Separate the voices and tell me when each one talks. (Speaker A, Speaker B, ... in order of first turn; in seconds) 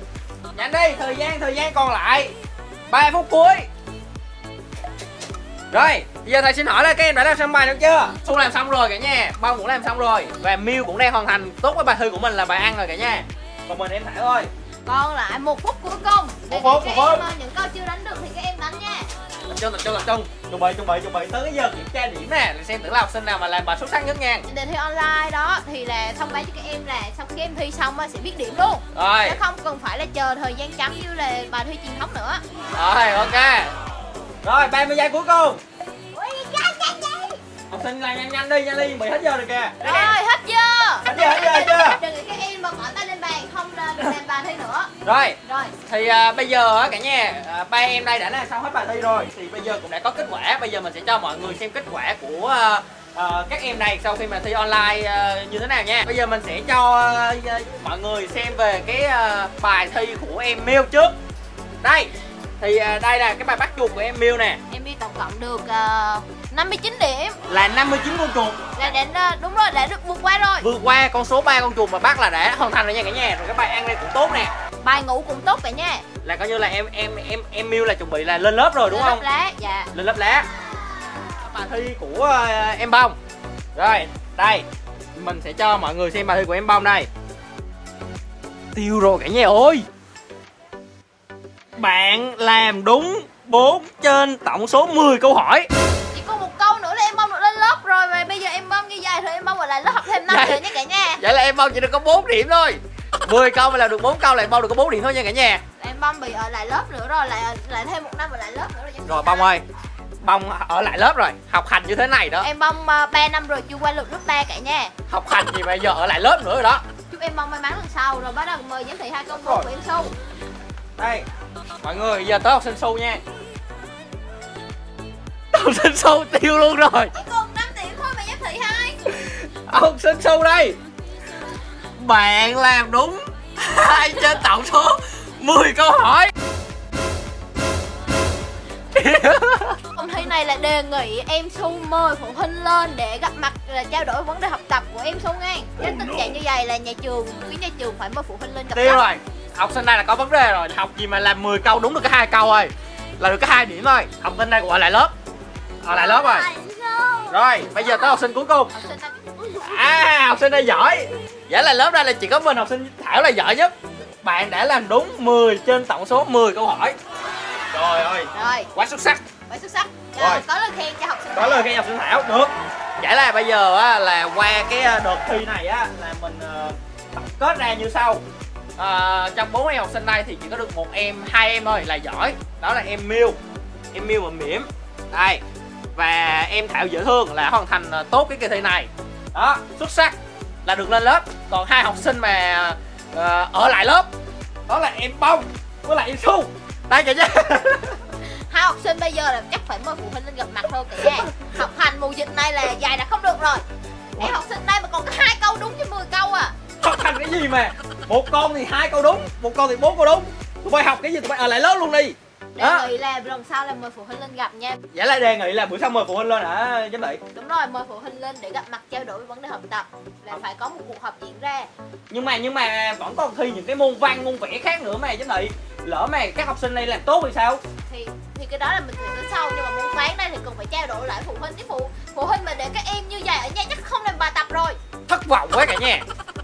Speaker A: 0.5-2.3, 2.9-3.7, 5.7-14.5, 16.5-17.2, 19.5-24.4, 28.9-29.4, 32.7-33.7, 34.4-35.6, 37.7-40.1, 41.0-42.0, 45.0-61.1, 61.8-64.6, 67.5-68.7, 70.6-74.5, 76.2-79.2, 79.9-80.5, 81.4-83.2, 83.7-87.1, 88.7-89.8, 91.8-95.7, 100.2-100.6, 101.2-105.6, 109.1-109.6, 110.2-112.5, 115.1-116.8, 119.3-119.7, 121.0-121.2, 121.8-123.2, 125.5-127.1, 129.1-130.8, 132.0-136.3, 138.9-139.8, 148.7-155.1, 155.8-156.5, 157.3-158.7, 159.6-167.0, 167.7-169.2, 170.2-170.4, 171.3-178.2, 178.8-183.4, 183.9-185.4, 185.9-194.1, 194.7-198.0, 206.8-212.9, 214.9-217.2, 222.1-227.6, 235.1-236.0
Speaker B: 14.8-19.1, 24.4-32.4, 39.8-44.9, 45.4-45.8, 64.7-67.4, 68.8-70.7, 74.8-76.0, 78.9-79.9, 96.1-101.2, 105.8-109.5, 112.4-114.9, 117.1-120.1, 127.1-129.0, 139.9-149.1, 158.7-159.8, 168.3-168.7, 169.5-171.7, 198.5-203.6, 204.2-206.5, 212.6-214.8, 217.3-221.7, 227.9-234.8
Speaker C: 36.1-37.4, 155.9-157.4